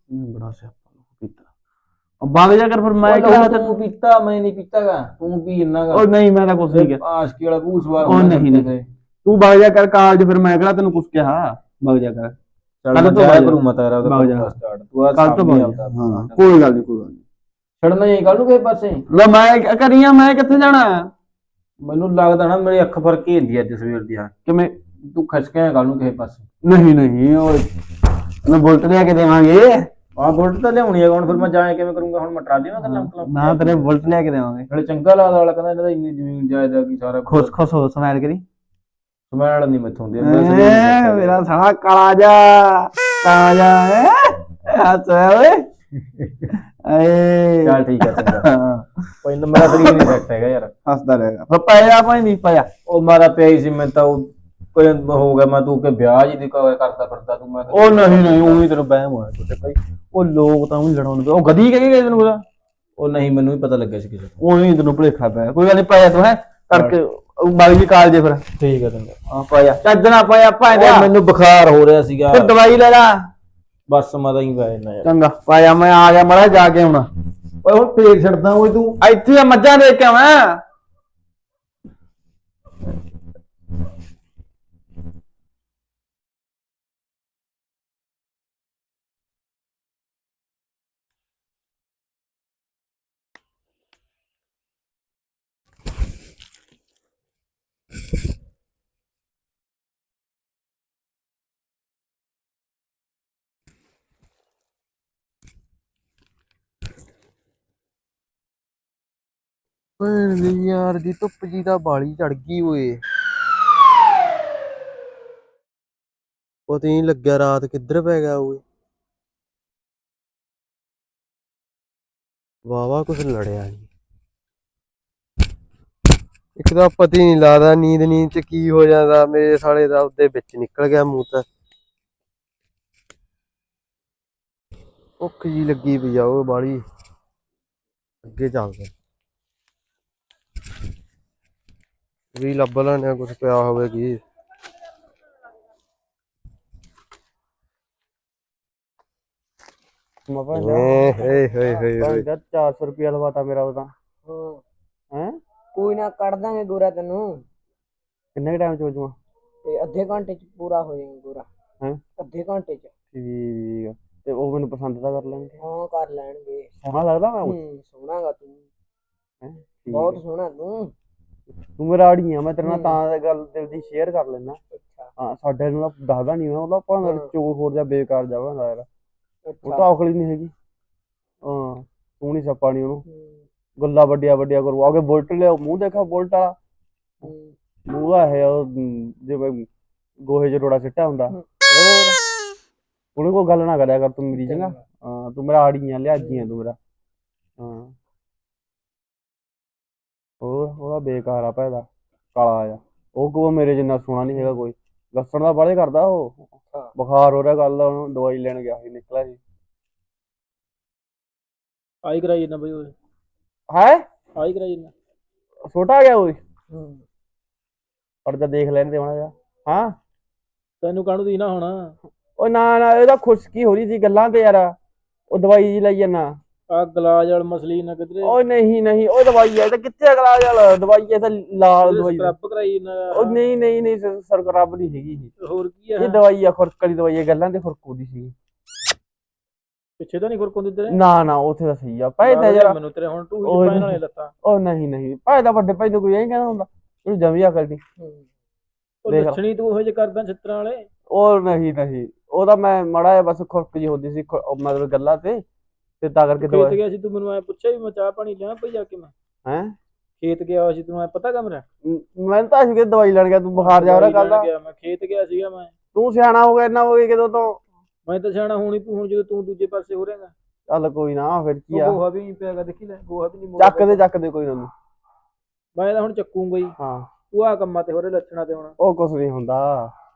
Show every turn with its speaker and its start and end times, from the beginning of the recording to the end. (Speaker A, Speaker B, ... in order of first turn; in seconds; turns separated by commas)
Speaker A: 0.1-1.4, Speaker A: 2.2-3.8, Speaker B: 3.0-6.1, Speaker A: 5.9-7.0, Speaker B: 6.7-8.8, Speaker A: 8.0-8.7, Speaker A: 9.2-12.3, Speaker B: 12.8-16.6, Speaker A: 12.9-14.5, Speaker A: 15.1-17.2, Speaker B: 17.8-19.0, Speaker A: 19.1-21.1, Speaker B: 21.8-24.3, Speaker A: 24.4-24.7, Speaker B: 25.0-26.5, Speaker A: 26.6-27.7, Speaker A: 28.4-29.9, Speaker B: 30.2-33.9, Speaker A: 32.8-34.7, Speaker B: 34.7-37.5, Speaker A: 37.2-38.4, Speaker B: 39.3-41.4, Speaker A: 40.2-45.7, Speaker B: 46.2-46.5, Speaker A: 46.8-48.9, Speaker B: 47.6-48.5, Speaker B: 49.2-50.7, Speaker A: 49.5-50.1, Speaker A: 50.9-52.7, Speaker B: 52.9-58.6, Speaker A: 57.7-62.4, Speaker B: 63.0-64.3, Speaker A: 64.4-68.5, Speaker B: 66.7-67.0, Speaker B: 68.6-69.2, Speaker A: 69.3-71.1, Speaker B: 70.7-72.5, Speaker A: 72.3-73.3, Speaker B: 73.9-75.1, Speaker A: 75.0-77.1, Speaker A: 77.6-80.6, Speaker C: 110.0-113.0, Speaker C: 116.7-118.6, Speaker C: 122.7-123.9, Speaker C: 126.6-131.4, Speaker C: 135.2-136.8, Speaker C: 138.2-138.9, Speaker C: 142.3-144.2, Speaker A: 150.3-151.4, Speaker C: 150.5-152.2, Speaker A: 152.0-153.9, Speaker D: 154.2-154.6, Speaker D: 155.7-157.4, Speaker A: 158.3-159.1, Speaker D: 159.7-161.5, Speaker D: 162.2-162.9, Speaker A: 163.1-165.6, Speaker D: 165.6-166.7, Speaker A: 166.9-167.6, Speaker D: 167.4-168.7, Speaker A: 169.4-170.2, Speaker D: 169.9-170.9, Speaker A: 171.8-174.6, Speaker D: 172.6-173.0, Speaker D: 174.7-175.1, Speaker A: 175.2-178.8, Speaker D: 177.0-177.3, Speaker D: 179.4-179.9, Speaker A: 179.6-180.5, Speaker A: 181.4-183.0, Speaker D: 183.0-183.4, Speaker A: 183.8-186.6, Speaker D: 187.2-187.5, Speaker A: 187.9-189.7, Speaker A: 190.2-191.3, Speaker D: 191.3-192.2, Speaker A: 193.2-196.8, Speaker D: 194.3-194.8, Speaker D: 196.2-196.5, Speaker A: 197.6-197.9, Speaker A: 200.4-209.4, Speaker E: 212.0-212.9, Speaker A: 213.7-214.0, Speaker E: 214.4-214.9, Speaker A: 215.7-216.4, Speaker D: 216.7-217.0, Speaker A: 218.2-219.9, Speaker E: 220.8-221.9, Speaker A: 222.4-224.7, Speaker A: 225.3-226.4, Speaker E: 226.7-228.4, Speaker A: 228.2-232.3, Speaker E: 231.8-233.5, Speaker A: 233.1-235.3, Speaker E: 235.4-236.2, Speaker A: 236.0-238.3, Speaker E: 240.0-241.0, Speaker A: 240.9-242.8, Speaker E: 242.2-244.3, Speaker A: 243.4-247.8, Speaker D: 248.0-248.3, Speaker E: 249.0-250.9, Speaker A: 249.1-249.4, Speaker A: 251.1-255.4, Speaker A: 256.0-256.8, Speaker E: 256.4-259.1, Speaker A: 259.4-259.8, Speaker E: 260.2-261.6, Speaker A: 261.8-264.4, Speaker E: 263.6-265.7, Speaker A: 265.9-267.6, Speaker E: 268.1-270.3, Speaker A: 270.7-272.0, Speaker E: 271.8-273.9, Speaker A: 273.6-274.7, Speaker E: 275.8-276.7, Speaker A: 276.8-277.1, Speaker E: 277.3-278.7, Speaker A: 278.8-279.9